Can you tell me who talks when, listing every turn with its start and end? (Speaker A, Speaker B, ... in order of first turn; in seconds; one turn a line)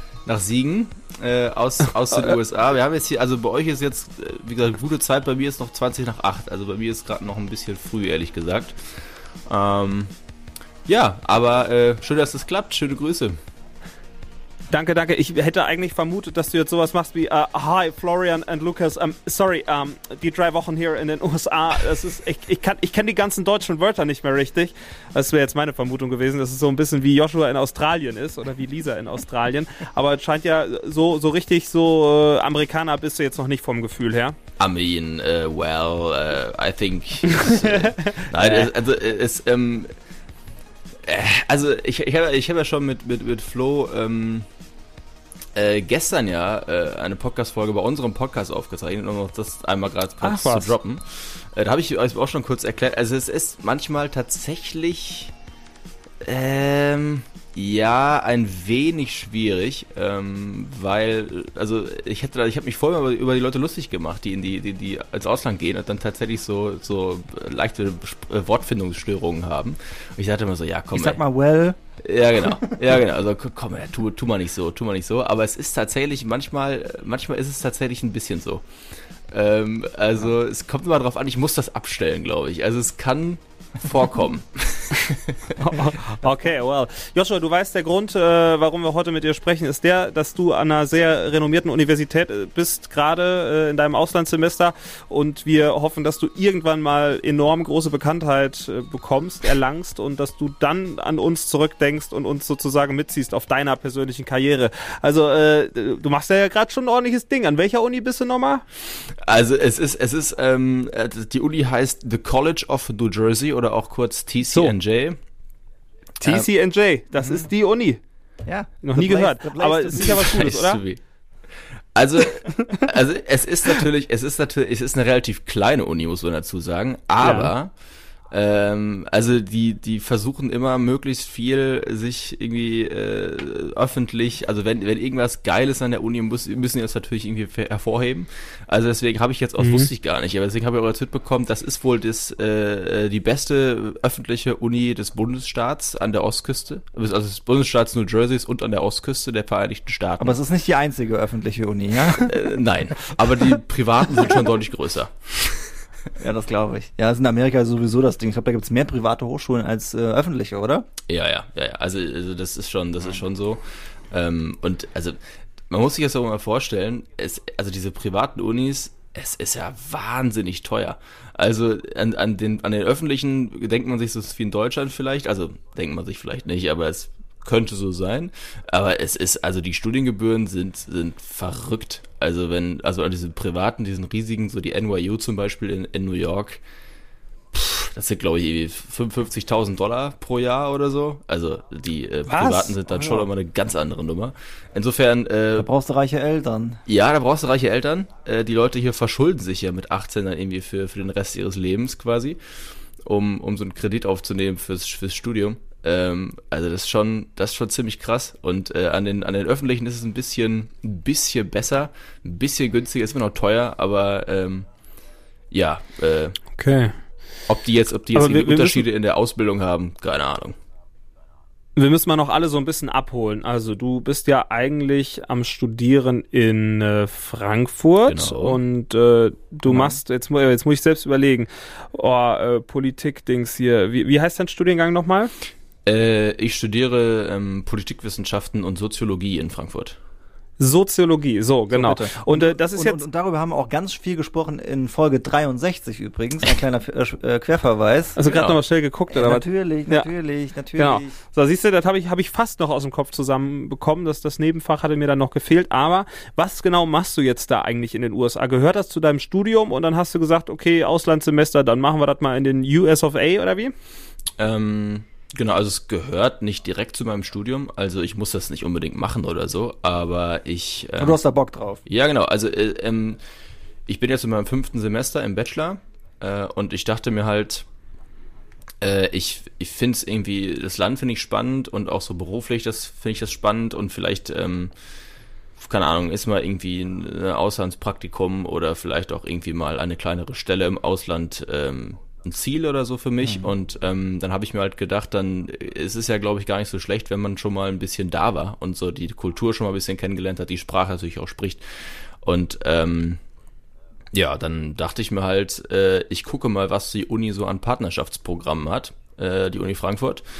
Speaker A: 0.2-10.1
Speaker A: 10.8-13.4
Speaker B: 14.7-34.4
Speaker A: 34.6-39.9
Speaker B: 37.3-38.7
Speaker A: 41.0-44.5
Speaker A: 45.5-55.3
Speaker B: 50.2-50.7
Speaker A: 56.2-71.2
Speaker C: 70.9-71.8
Speaker A: 72.0-78.6
Speaker A: 79.3-85.7
Speaker B: 85.6-108.6
Speaker A: 109.0-115.2
Speaker B: 116.2-118.0
Speaker A: 116.2-116.5
Speaker C: 117.2-117.5
Speaker C: 118.5-120.4
Speaker B: 118.8-120.8
Speaker A: 119.9-121.0
Speaker A: 121.9-127.7
Speaker B: 127.2-127.5
Speaker A: 128.3-150.4
Speaker B: 139.6-139.9
Speaker C: 150.2-152.4
Speaker A: 152.2-155.8
Speaker C: 156.2-160.9
Speaker A: 161.1-165.2
Speaker A: 165.7-186.6
Speaker A: 187.5-195.7
Speaker B: 192.3-192.7
Speaker C: 192.9-193.3
Speaker C: 195.6-196.8
Speaker A: 196.8-202.4
Speaker A: 203.0-214.7
Speaker A: 215.5-216.4
Speaker B: 216.6-216.9
Speaker A: 217.5-220.6
Speaker B: 218.1-218.8
Speaker B: 221.8-235.3
Speaker A: 228.1-228.6
Speaker C: 229.7-230.0
Speaker A: 235.8-240.0
Speaker B: 240.6-243.0
Speaker C: 241.7-248.2
Speaker B: 248.2-250.1
Speaker A: 248.2-248.6
Speaker C: 249.1-251.2
Speaker B: 250.8-263.7
Speaker A: 264.4-271.2
Speaker C: 271.0-271.8
Speaker A: 271.9-273.2
Speaker A: 273.9-277.6
Speaker A: 278.8-284.7
Speaker A: 285.6-303.2
Speaker A: 304.1-310.2